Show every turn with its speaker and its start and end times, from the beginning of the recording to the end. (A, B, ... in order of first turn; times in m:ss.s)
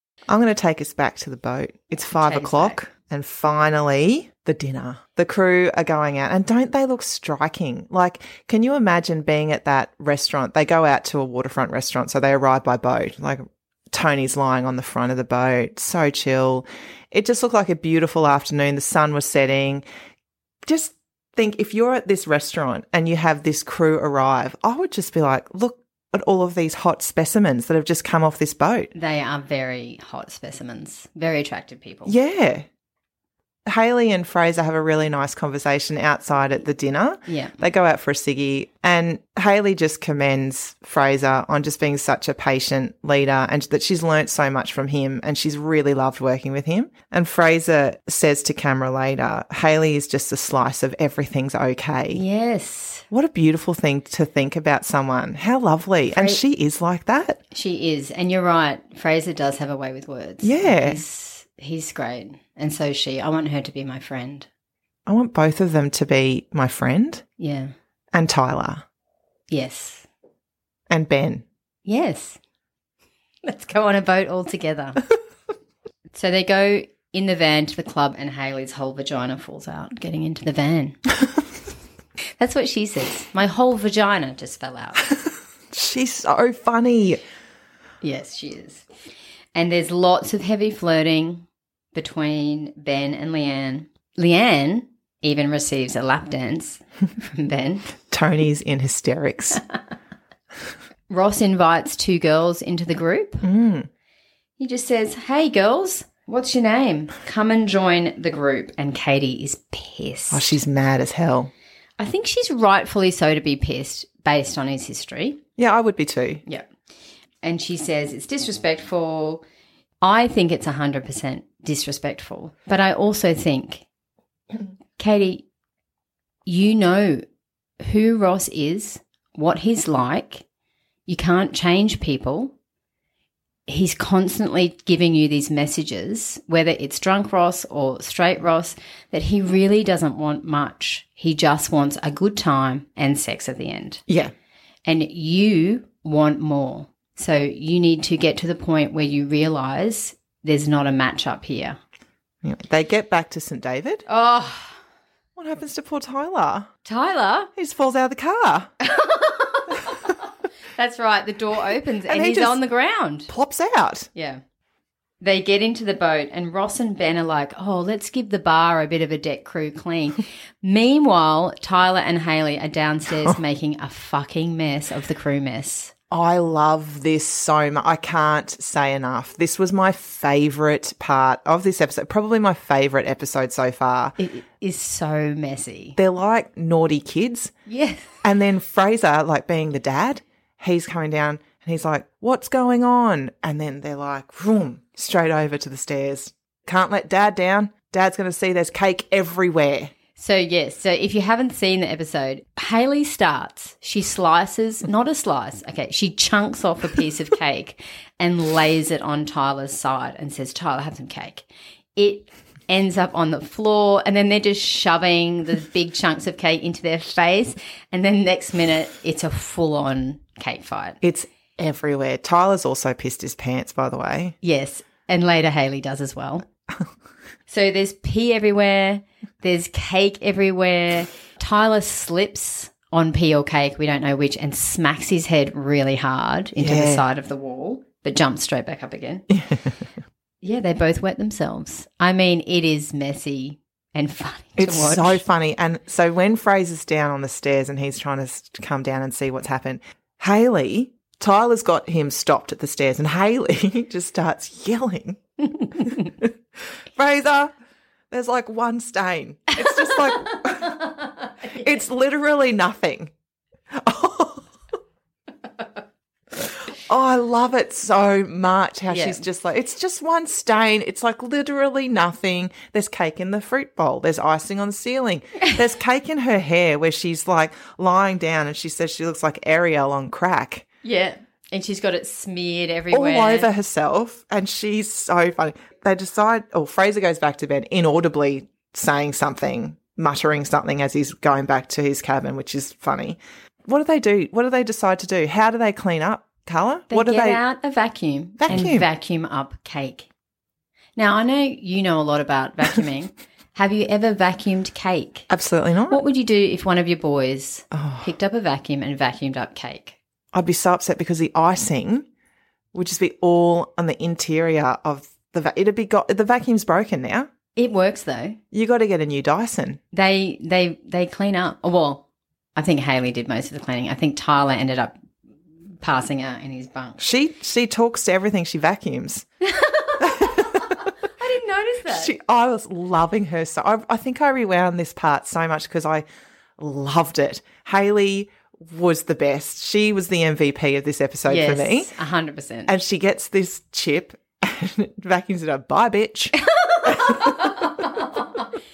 0:00.3-0:19.8 A
0:02.2-0:02.8 B
0:20.6-0:28.9 A
0:28.9-0:32.1 B
0:32.0-0:32.6 A
0:33.7-0:52.2 A
0:37.3-0:37.6 B
0:52.1-0:53.1 B
0:53.1-0:57.4 A
0:56.1-0:56.4 B
0:57.5-1:04.5 B
1:00.4-1:01.0 A
1:05.1-1:07.2 A
1:07.4-1:07.7 B
1:08.1-1:08.8 A
1:09.5-1:10.1 B
1:10.9-1:11.4 A
1:11.8-1:12.4 B
1:13.4-1:15.0 B
1:16.1-1:21.0 B
1:22.4-1:25.1 B
1:25.7-1:27.2 A
1:28.0-1:28.9 B
1:29.5-1:37.9 B
1:38.1-1:39.6 A
1:41.1-1:43.4 B
1:43.4-1:43.9 A
1:44.6-1:50.6 B
1:50.3-1:51.5 A
1:52.0-1:55.4 B
1:55.6-1:56.4 A
1:57.4-1:59.4 B
2:00.0-2:03.8 B
2:05.0-2:05.4 B
2:06.4-2:07.2 B
2:07.8-2:10.4 B
2:11.1-2:12.5 B
2:13.7-2:24.0 B
2:24.1-2:24.3 A
2:24.8-2:31.8 B
2:32.4-2:34.0 A
2:34.1-2:34.8 B
2:35.4-2:36.7 A
2:36.8-2:37.5 B
2:37.6-2:38.7 A
2:38.8-2:43.3 B
2:42.1-2:42.6 A
2:43.3-2:44.1 A
2:44.1-2:44.4 B
2:45.2-2:55.9 B
2:56.1-3:04.1 A
3:04.2-3:06.0 B
3:06.0-3:07.5 A
3:07.6-3:08.2 B
3:08.2-3:19.9 A
3:20.2-3:41.0 B
3:41.0-3:44.4 A
3:44.4-3:46.4 B
3:47.5-3:59.2 B
3:56.6-3:57.0 A
3:59.3-3:59.8 A
4:00.4-4:05.2 B
4:04.6-4:16.3 A
4:16.9-4:17.5 A
4:18.1-4:20.9 A
4:20.2-4:21.6 B
4:21.4-4:23.1 A
4:23.7-4:24.5 A
4:26.4-4:40.6 A
4:28.9-4:29.2 B
4:40.8-4:43.5 B
4:42.9-4:57.4 A
4:56.9-5:00.1 B
4:58.4-4:58.8 A
5:01.0-5:05.3 B
5:05.3-5:06.0 A
5:05.9-5:10.0 B
5:07.7-5:08.1 A
5:10.3-5:12.0 A
5:12.7-5:17.3 A
5:17.6-5:18.4 B
5:18.5-5:19.8 A
5:19.9-5:25.0 B
5:25.8-5:27.0 B
5:27.0-5:29.2 A
5:29.4-5:32.1 B
5:30.0-5:30.7 A
5:31.9-5:36.0 A
5:36.6-5:41.9 A
5:41.3-5:42.7 B
5:42.7-5:47.5 A
5:46.5-5:48.4 B